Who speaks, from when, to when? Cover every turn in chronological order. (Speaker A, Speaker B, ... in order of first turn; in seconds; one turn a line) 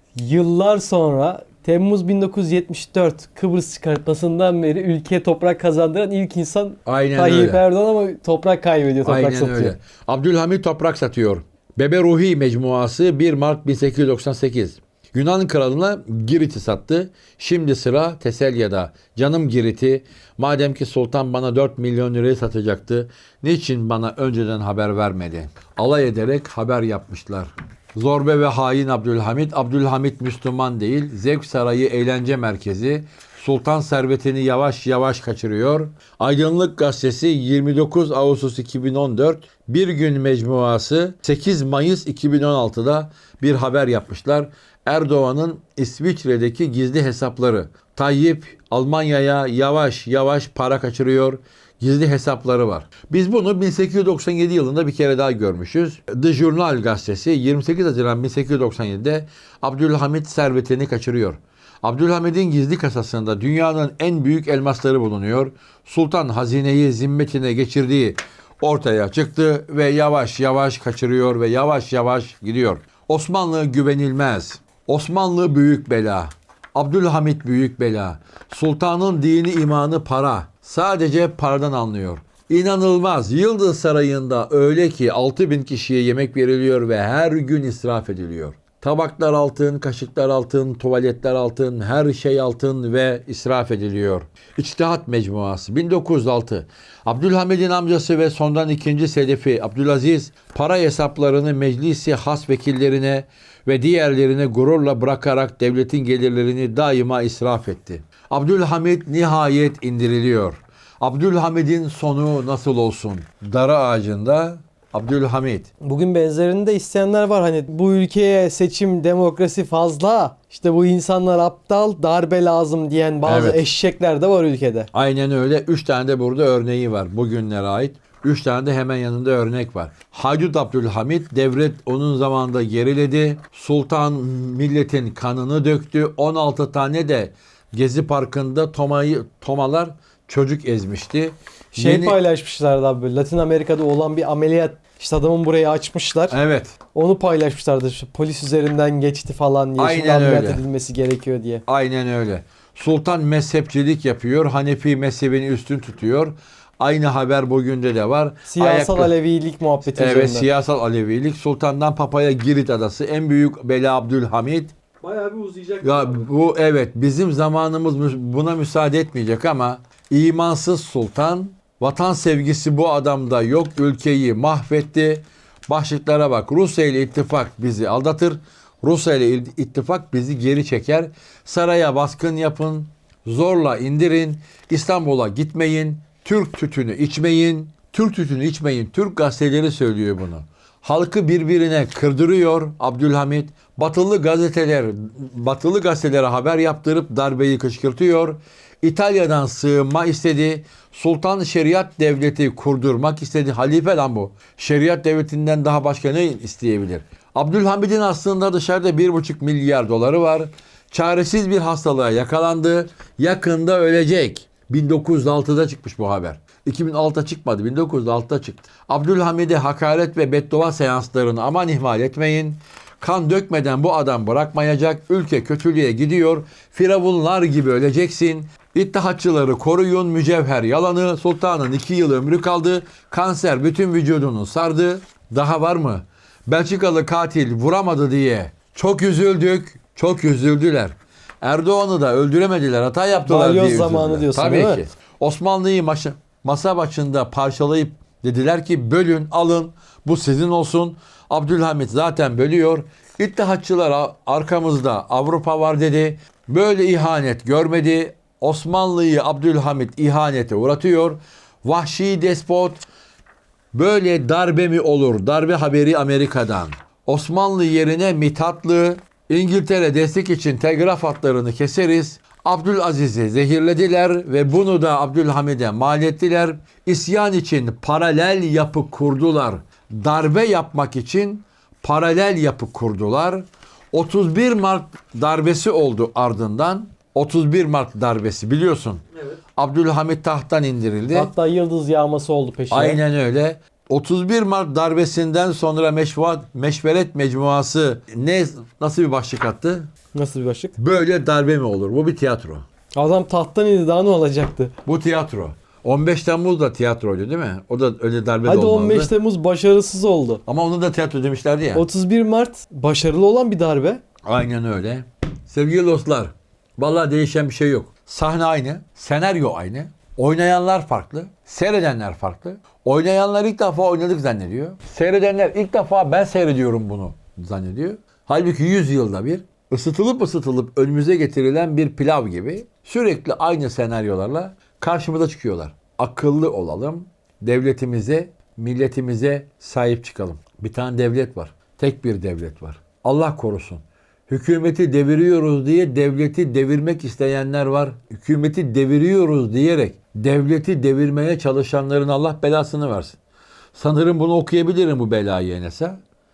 Speaker A: 0.1-9.7
Speaker B: 6.8-7.6
Speaker B: 9.0-115.7
Speaker A: 115.8-124.9
Speaker B: 123.2-123.6
Speaker B: 124.9-142.2
Speaker A: 141.7-146.4
Speaker B: 146.3-146.8
Speaker A: 146.9-151.6
Speaker B: 149.8-150.6
Speaker B: 151.7-159.1
Speaker A: 158.5-160.5
Speaker B: 159.9-164.7
Speaker A: 165.0-166.2
Speaker B: 165.8-262.8
Speaker A: 243.2-244.8
Speaker B: 263.7-289.0
Speaker B: 289.6-291.3
Speaker A: 291.1-293.0
Speaker B: 292.7-299.9
Speaker A: 300.1-300.8
Speaker B: 300.8-302.6
Speaker A: 302.9-304.7
Speaker B: 304.8-309.1
Speaker A: 308.4-310.4
Speaker B: 310.4-311.9
Speaker A: 311.7-314.0
Speaker B: 314.2-353.2
Speaker B: 353.7-356.0